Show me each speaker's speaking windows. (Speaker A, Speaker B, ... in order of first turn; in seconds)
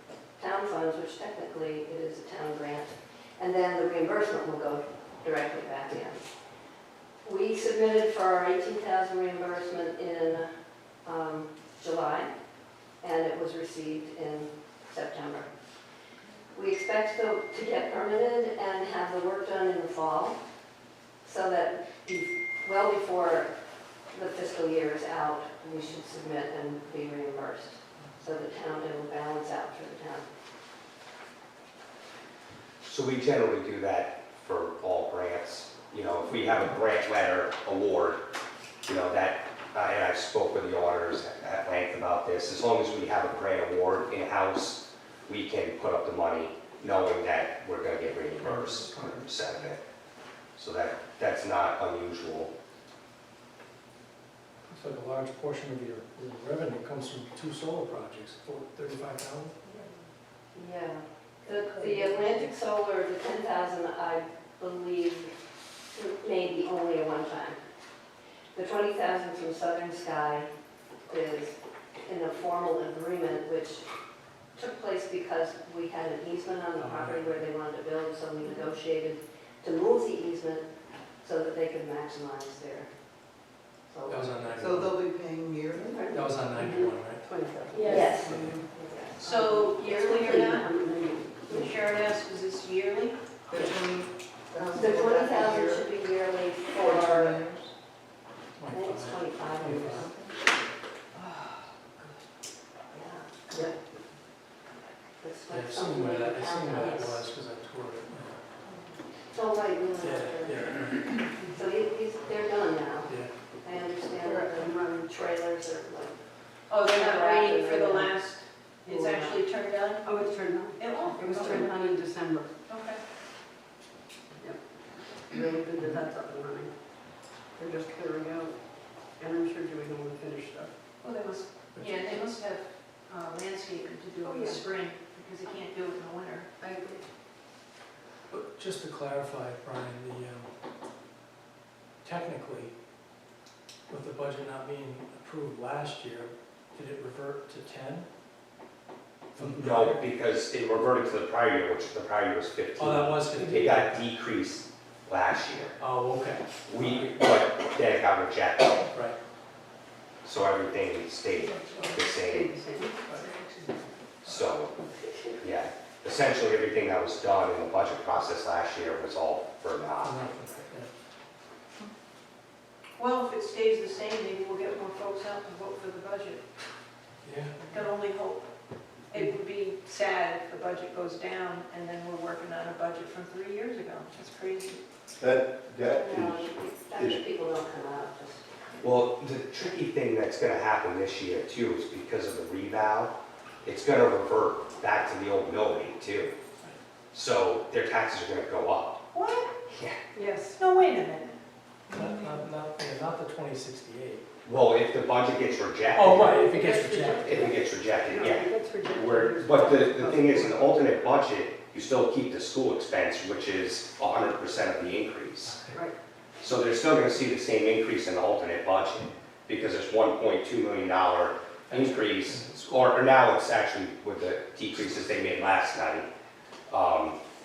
Speaker A: 0.4-6.2, 7.2-10.5, 11.0-12.3, 13.0-15.5, 16.5-20.4, 21.2-23.5, 24.1-30.2, 60.5-65.3, 65.9-67.6, 68.5-70.5, 71.1-73.8, 74.5-80.7, 81.2-82.9, 83.9-84.3, 85.8-86.2, 87.8-90.0, 94.7-97.5, 98.7-100.1, 102.9-103.7, 105.2-107.2, 109.3-116.2, 116.7-118.1, 185.8-188.5
Speaker B: 32.8-38.2, 38.8-49.8, 50.5-52.5, 149.3-155.8, 156.7-158.9, 160.2-162.5, 164.2-164.7, 165.4-170.7, 188.8-196.3, 197.1-199.0, 199.7-200.0, 204.4-206.4, 207.2-215.6, 216.4-226.1, 226.7-227.2
Speaker C: 48.4-49.4, 54.7-59.6, 76.8-77.4, 84.1-85.0, 86.1-87.2, 98.6-100.2, 105.5-108.4, 110.0-111.2, 113.0-113.3, 131.8-132.0, 138.3-140.5, 142.0-142.7, 143.9-148.1, 149.3-150.0, 152.8-154.1, 155.8-157.1, 158.9-159.2, 163.1-164.8, 170.0-170.9, 177.2-177.8, 201.9-204.2, 205.9-207.5, 215.4-215.8, 221.7-222.7
Speaker D: 84.6-86.1, 87.8-88.7, 93.5-95.9, 96.7-97.7
Speaker E: 86.6-88.1, 89.5-91.7, 114.2-115.0, 118.9-119.3, 120.0-122.5, 124.4-126.7, 127.5-128.6, 129.2-130.7, 134.2-134.6, 136.6-137.0, 161.8-163.1, 200.1-200.6, 206.3-210.8, 215.7-215.9
Speaker F: 89.2-90.7, 91.5-93.2, 101.1-101.6, 116.7-120.1, 120.8-121.7, 122.7-123.0, 131.0-136.5, 173.0-176.5, 177.7-178.5, 179.1-184.8, 199.1-199.6, 200.6-201.4
Speaker G: 185.2-187.2